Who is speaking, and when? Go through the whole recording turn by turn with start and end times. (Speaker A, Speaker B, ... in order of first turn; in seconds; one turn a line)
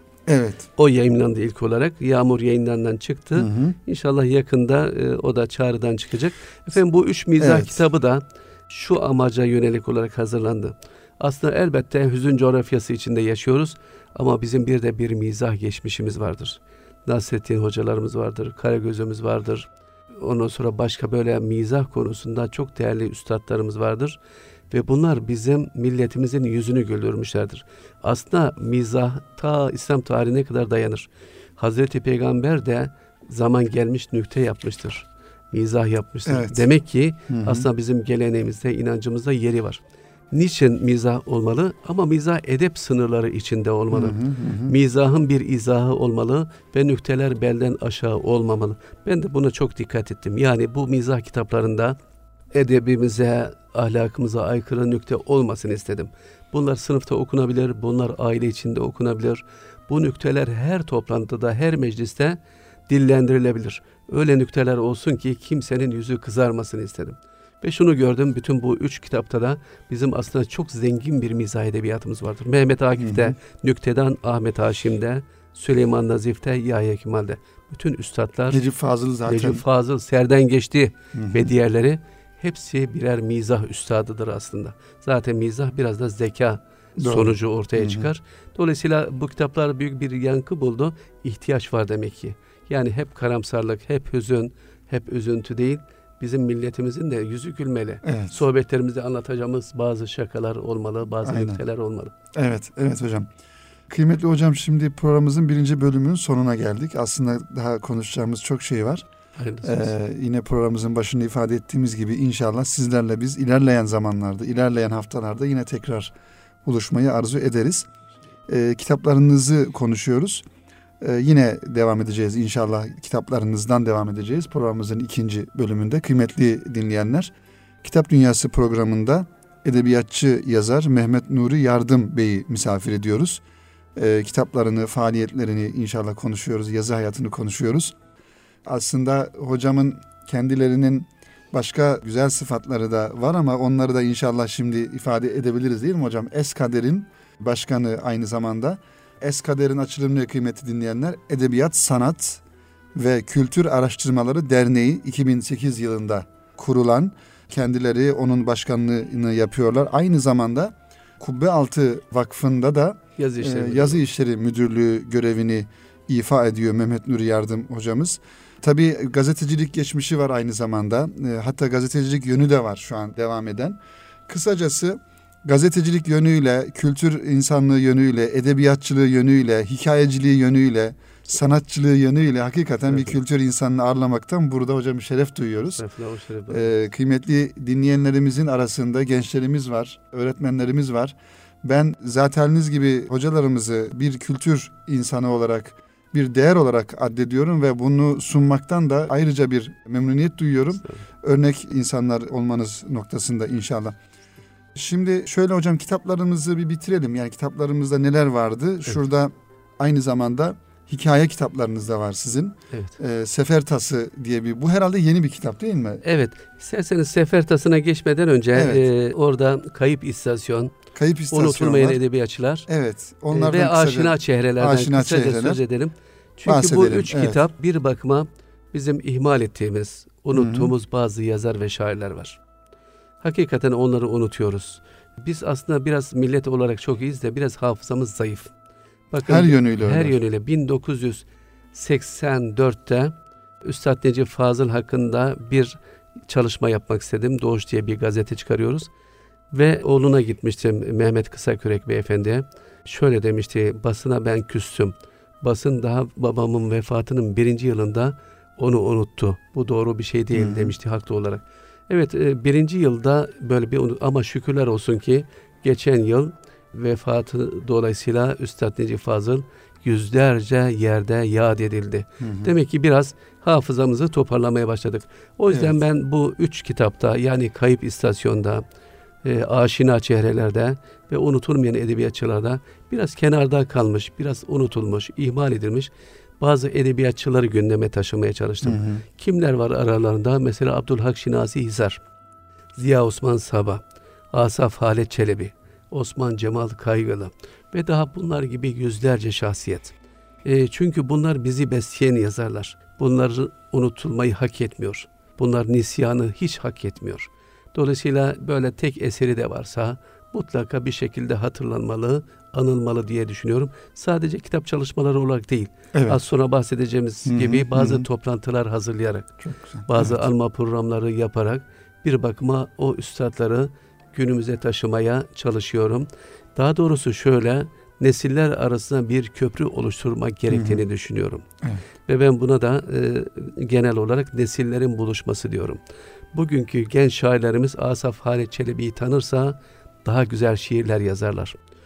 Speaker A: 0.3-0.7
Speaker B: 0.8-19.7
Speaker A: 3.4-3.8
Speaker A: 7.4-7.8
Speaker B: 20.2-24.2
Speaker B: 24.7-39.8
Speaker A: 36.3-36.7
Speaker A: 37.3-37.7
Speaker B: 40.3-52.0
Speaker A: 43.9-44.8
Speaker B: 52.5-78.6
Speaker A: 73.0-73.3
Speaker A: 78.5-79.6
Speaker B: 79.3-102.1
Speaker A: 81.2-81.5
Speaker A: 87.0-88.1
Speaker A: 98.0-98.4
Speaker A: 101.2-101.6
Speaker A: 102.3-103.3
Speaker A: 103.9-109.0
Speaker B: 109.4-109.9
Speaker A: 109.6-116.1
Speaker A: 116.7-117.9
Speaker A: 118.5-120.4
Speaker A: 121.0-127.3
Speaker A: 127.8-133.4
Speaker A: 133.9-138.0
Speaker A: 138.7-152.4
Speaker A: 152.9-185.8
Speaker B: 163.2-164.0
Speaker B: 182.9-183.2
Speaker B: 185.8-186.7
Speaker A: 186.5-204.0
Speaker A: 204.7-216.0
Speaker B: 216.0-220.7
Speaker A: 218.5-218.8
Speaker A: 220.9-222.0
Speaker B: 221.3-222.7
Speaker A: 222.7-225.6
Speaker B: 223.3-232.4
Speaker A: 226.5-227.4
Speaker A: 230.3-230.7
Speaker B: 233.2-238.5
Speaker B: 239.1-245.8
Speaker A: 239.2-240.2
Speaker B: 246.3-248.9
Speaker B: 249.5-278.6
Speaker A: 260.3-260.8
Speaker A: 272.2-272.5
Speaker A: 275.5-275.8
Speaker B: 279.2-292.0
Speaker A: 288.6-289.0
Speaker B: 292.8-319.3
Speaker A: 315.9-316.2
Speaker A: 317.3-318.1
Speaker A: 319.4-320.3
Speaker B: 319.9-331.4
Speaker A: 330.5-330.9
Speaker B: 332.1-335.8
Speaker B: 336.3-341.6